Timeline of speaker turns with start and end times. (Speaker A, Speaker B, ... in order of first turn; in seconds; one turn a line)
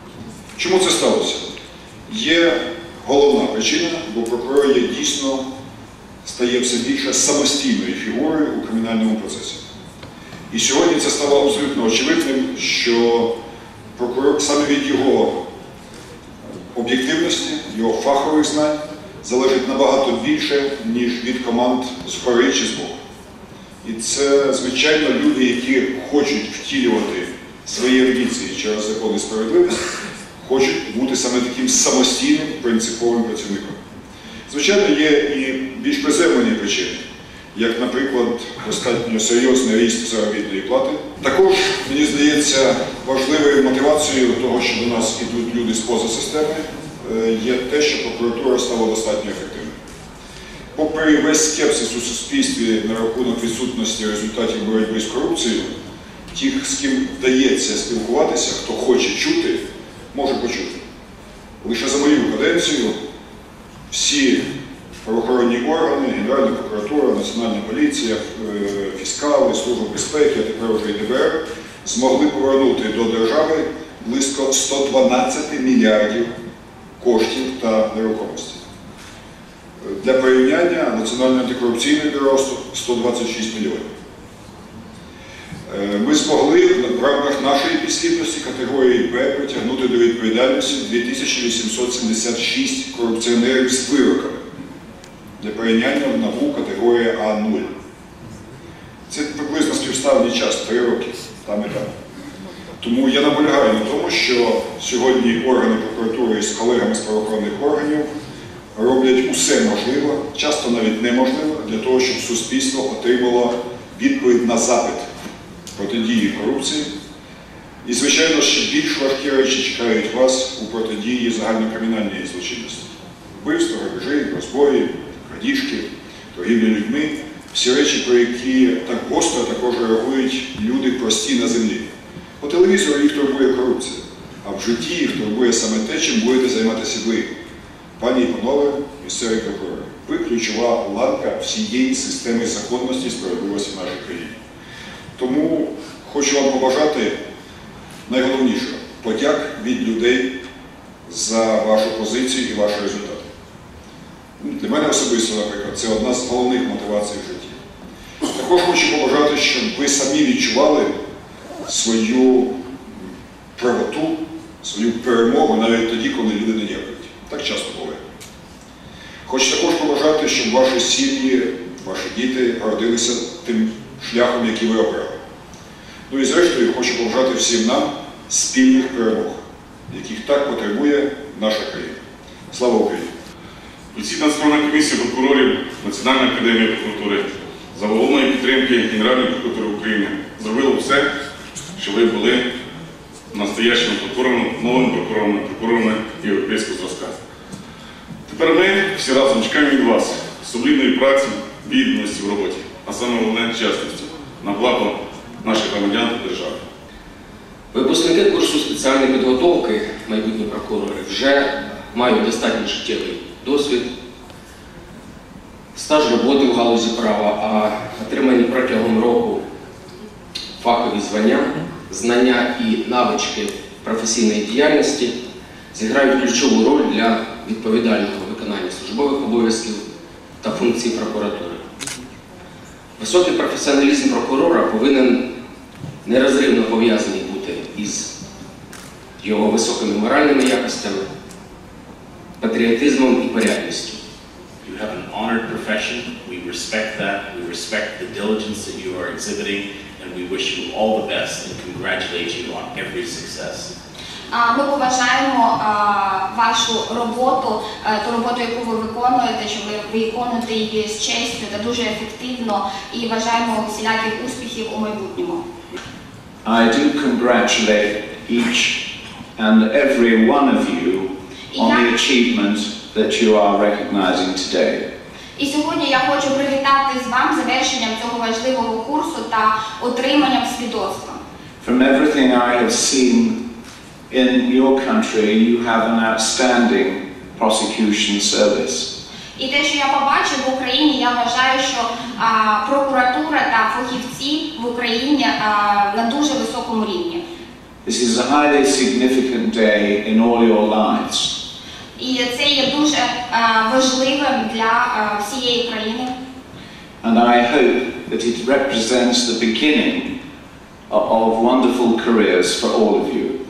Speaker A: 0.6-1.4
Speaker A: 2.1-5.4
Speaker A: 6.2-9.6
Speaker A: 10.5-13.3
Speaker A: 14.0-15.3
Speaker A: 16.7-23.0
Speaker A: 23.8-29.8
Speaker A: 30.4-33.8
Speaker A: 34.5-37.0
Speaker A: 37.5-49.7
Speaker A: 50.7-55.7
Speaker A: 56.3-59.6
Speaker A: 60.1-60.8
Speaker A: 61.6-62.9
Speaker A: 63.9-64.5
Speaker A: 65.0-76.3
Speaker A: 77.0-78.6
Speaker A: 79.8-83.9
Speaker A: 85.7-94.4
Speaker A: 95.4-97.7
Speaker A: 99.1-101.9
Speaker A: 102.8-108.1
Speaker A: 108.7-115.1
Speaker A: 115.8-116.9
Speaker A: 117.8-122.8
Speaker A: 123.3-131.8
Speaker A: 132.4-137.3
Speaker A: 138.0-144.3
Speaker A: 145.2-147.2
Speaker A: 148.1-150.3
Speaker A: 151.1-153.2
Speaker A: 154.4-157.6
Speaker A: 158.3-160.9
Speaker A: 161.7-162.5
Speaker A: 163.6-168.0
Speaker A: 169.2-175.1
Speaker A: 176.1-182.0
Speaker A: 182.5-183.1
Speaker B: 183.9-191.1
Speaker B: 191.8-192.4
Speaker B: 193.3-197.2
Speaker B: 198.3-206.6
Speaker C: 207.7-213.9
Speaker C: 215.8-219.4
Speaker C: 220.6-225.1
Speaker C: 225.7-229.8
Speaker C: 230.4-231.6
Speaker C: 233.0-235.2
Speaker C: 236.0-238.1
Speaker C: 239.2-241.0
Speaker C: 242.4-244.0
Speaker D: 244.6-253.7
Speaker E: 254.3-265.4
Speaker F: 266.4-274.9
Speaker E: 275.4-281.2
Speaker F: 281.6-283.4
Speaker F: 284.1-288.9
Speaker E: 289.4-297.2
Speaker F: 297.8-301.4
Speaker E: 302.0-306.1
Speaker F: 307.0-310.1
Speaker F: 310.9-313.4